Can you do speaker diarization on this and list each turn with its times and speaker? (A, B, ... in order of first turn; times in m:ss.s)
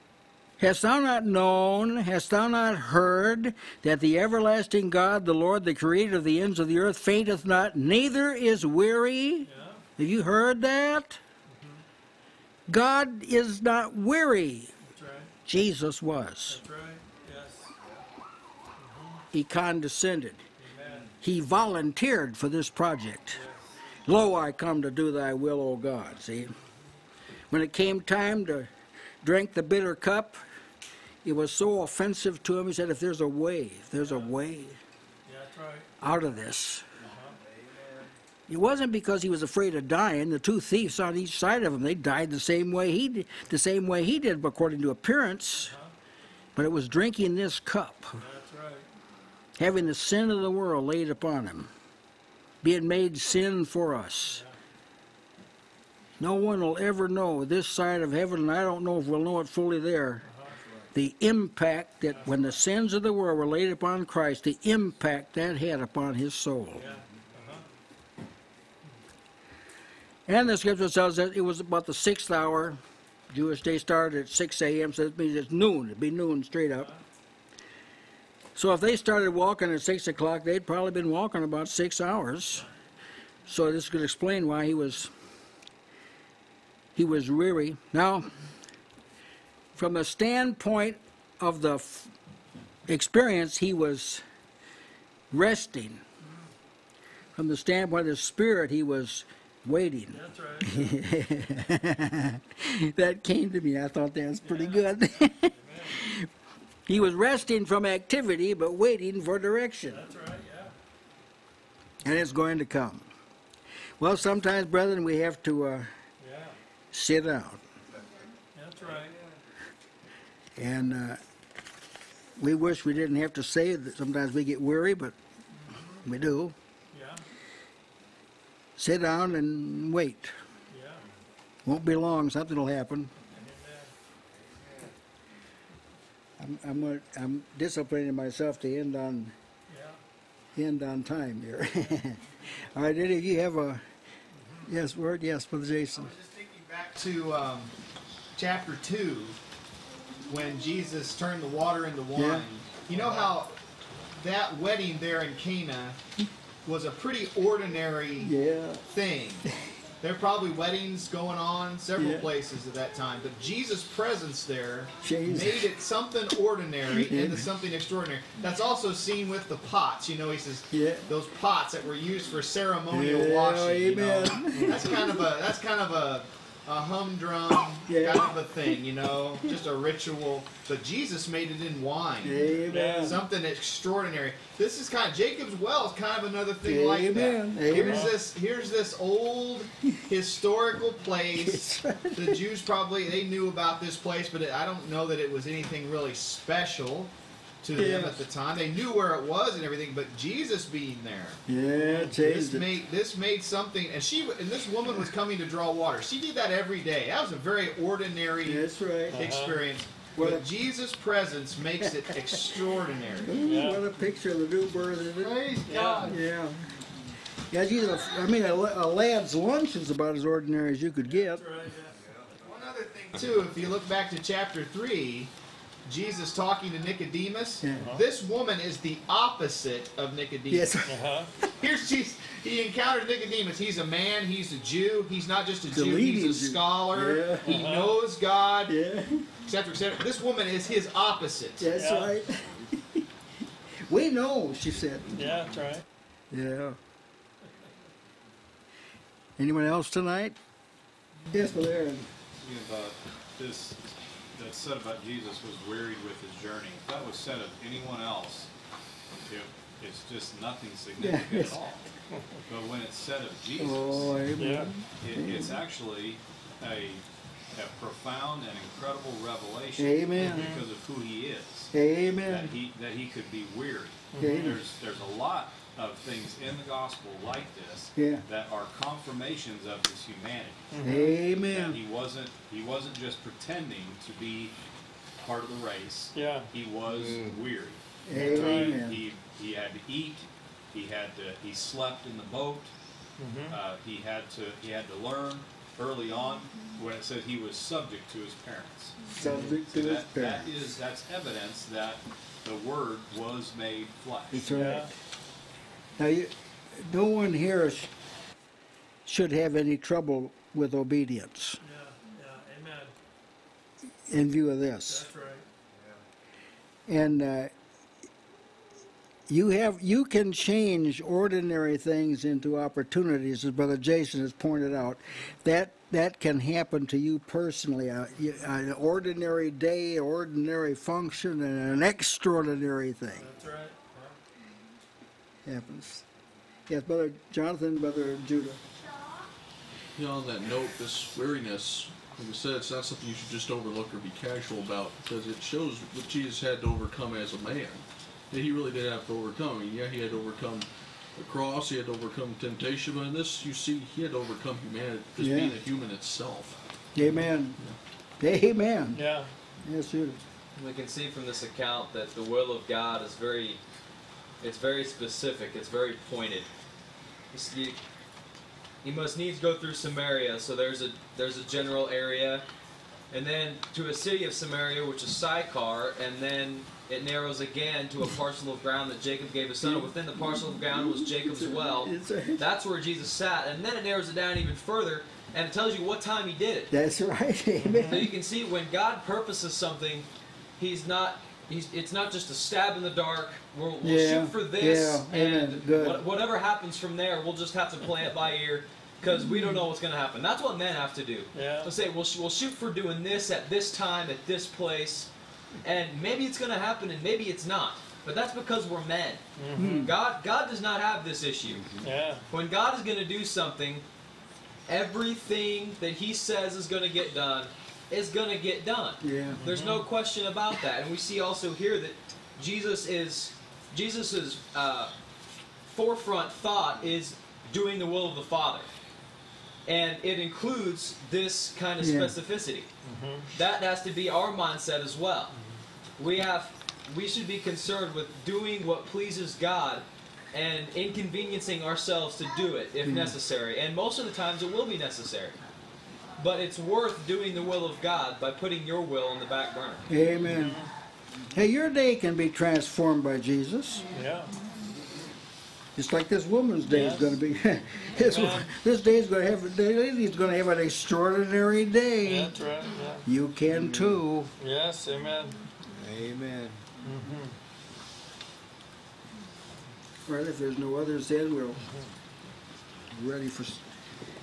0:00.6-0:11.2 A
0:09.4-0:09.8 B
0:11.5-0:11.8 B
0:12.7-0:14.7 A
0:14.8-0:15.3 B
0:15.4-0:16.6 A
0:16.5-0:17.7 B
0:18.8-0:19.2 B
0:19.3-0:20.4 A
0:20.6-0:21.1 B
0:21.2-0:23.4 A
0:23.3-0:23.7 B
0:24.0-0:26.6 A
0:27.5-0:28.7 A
0:29.2-0:30.4 A
0:31.2-0:34.8 A
0:34.0-0:34.3 B
0:35.3-0:35.9 B
0:36.0-0:36.8 A
0:37.0-0:37.4 B
0:38.5-0:45.7 A
0:45.6-0:45.9 B
0:46.6-0:48.2 A
0:48.2-0:48.9 B
0:49.6-0:51.7 A
0:52.6-0:54.4 A
0:54.3-0:54.6 B
0:56.2-1:00.2 A
1:00.2-1:00.5 B
1:00.9-1:06.8 A
1:06.7-1:07.6 B
1:10.3-1:12.8 A
1:13.3-1:16.9 A
1:16.8-1:17.0 B
1:18.6-1:22.7 A
1:23.5-1:25.1 A
1:27.0-1:28.3 A
1:29.8-1:32.1 A
1:32.9-1:34.2 A
1:35.3-1:36.0 A
1:37.4-1:46.3 A
1:40.1-1:40.9 B
1:44.4-1:46.0 B
1:46.9-1:50.0 A
1:49.9-1:50.7 B
1:52.0-1:53.1 A
1:54.0-1:55.9 A
1:56.2-1:56.6 B
1:56.9-1:57.6 A
1:58.5-1:59.2 B
2:00.6-2:01.2 A
2:02.4-2:05.1 A
2:05.6-2:06.0 B
2:06.0-2:06.6 A
2:06.9-2:07.2 B
2:08.8-2:10.3 A
2:10.7-2:11.0 B
2:11.6-2:13.1 A
2:13.2-2:13.9 B
2:16.4-2:19.3 A
2:19.7-2:20.0 B
2:20.6-2:23.8 A
2:24.6-2:26.1 A
2:25.9-2:27.7 C
2:28.4-2:29.4 C
2:30.3-2:33.6 C
2:32.2-2:32.4 A
2:34.1-2:36.0 C
2:36.6-2:38.3 C
2:38.2-2:38.8 A
2:38.9-2:39.5 C
2:40.0-3:33.4 C
2:42.0-2:42.3 A
2:45.0-2:45.7 A
2:46.9-2:47.5 A
2:50.7-2:51.0 A
2:52.9-2:55.2 A
2:54.5-2:54.8 B
2:57.9-2:58.4 A
3:02.2-3:03.2 A
3:02.7-3:03.2 B
3:06.6-3:08.1 A
3:07.8-3:08.1 B
3:11.4-3:12.4 A
3:17.8-3:18.2 A
3:21.5-3:22.7 A
3:28.4-3:29.2 A
3:29.1-3:29.6 B
3:30.2-3:30.4 A
3:31.8-3:32.4 A
3:33.2-3:36.6 A
3:33.4-3:33.8 B
3:35.2-3:36.2 C
3:35.6-3:36.2 B
3:37.5-3:41.4 A
3:41.1-3:42.0 B
3:42.4-3:45.3 C
3:45.9-3:50.7 C
3:47.6-3:47.9 A
3:47.8-3:48.0 B
3:50.5-3:51.5 A
3:50.9-3:51.3 B
3:51.5-3:58.8 C
3:55.7-3:57.6 A
3:57.4-3:57.9 B
3:58.7-3:59.3 A
3:59.4-4:01.8 C
4:01.6-4:03.0 A
4:01.7-4:02.1 B
4:03.9-4:05.2 A
4:05.1-4:05.8 B
4:06.3-4:06.8 A
4:09.4-4:10.4 A
4:11.3-4:12.1 A
4:12.4-4:18.5 D
4:19.3-4:21.8 D
4:21.0-4:21.6 A
4:22.4-4:24.3 D
4:23.6-4:25.6 A
4:24.4-4:24.7 B
4:24.9-4:27.0 D
4:27.5-4:31.7 D
4:29.8-4:30.6 A
4:30.2-4:30.6 B
4:31.7-4:32.5 A
4:32.2-4:40.9 D
4:34.1-4:34.6 B
4:34.2-4:34.6 A
4:38.0-4:38.2 A
4:40.7-4:41.2 B
4:40.8-4:41.8 A
4:41.5-4:44.6 D
4:45.2-4:52.7 D
4:46.1-4:46.5 B
4:48.0-4:49.0 A
4:48.1-4:48.8 B
4:53.2-4:53.6 B
4:53.5-5:04.5 D
4:59.1-5:00.6 A
5:04.3-5:04.9 A
5:04.5-5:04.9 B
5:06.0-5:07.9 A
5:09.0-5:11.6 A
5:11.6-5:12.9 B
5:14.1-5:15.1 A
5:14.9-5:15.4 B
5:16.9-5:17.5 A
5:19.3-5:33.3 A
5:33.2-5:34.2 B
5:35.4-5:36.0 A
5:36.7-5:38.6 A
5:39.9-5:57.1 E
5:55.2-5:55.6 A
5:56.9-5:57.6 A
5:58.2-5:59.0 A
5:58.9-5:59.3 B
5:59.6-6:00.2 A
6:00.6-6:03.6 F
6:04.4-6:06.5 F
6:07.3-6:07.8 F
6:08.8-6:12.4 F
6:13.1-6:26.7 F
6:19.6-6:22.4 A
6:26.7-6:28.1 A
6:27.6-6:28.0 B
6:27.9-6:45.1 F
6:33.8-6:36.0 A
6:39.0-6:39.6 A
6:41.3-6:41.7 B
6:45.6-6:49.2 F
6:49.4-6:49.9 B
6:49.6-6:49.9 A
6:49.7-6:51.7 F
6:51.8-6:52.2 B
6:52.3-6:53.8 F
6:54.7-7:04.9 F
6:59.0-6:59.4 A
6:59.4-6:59.9 B
7:05.7-7:08.7 F
7:09.6-7:12.7 F
7:11.8-7:12.2 A
7:12.8-7:13.3 B
7:13.3-7:15.3 F
7:15.3-7:15.6 B
7:16.0-7:25.4 F
7:22.8-7:23.2 A
7:26.2-7:29.9 F
7:29.9-7:30.6 A
7:30.3-7:30.7 B
7:31.3-7:33.8 A
7:33.9-7:34.3 B
7:35.8-7:42.3 A
7:36.7-7:37.2 B
7:38.0-7:38.5 B
7:42.0-7:43.1 B
7:43.0-7:44.3 A
7:44.4-7:45.4 B
7:45.8-7:46.5 A
7:46.8-7:47.4 B
7:50.1-7:51.6 A
7:52.9-7:53.6 A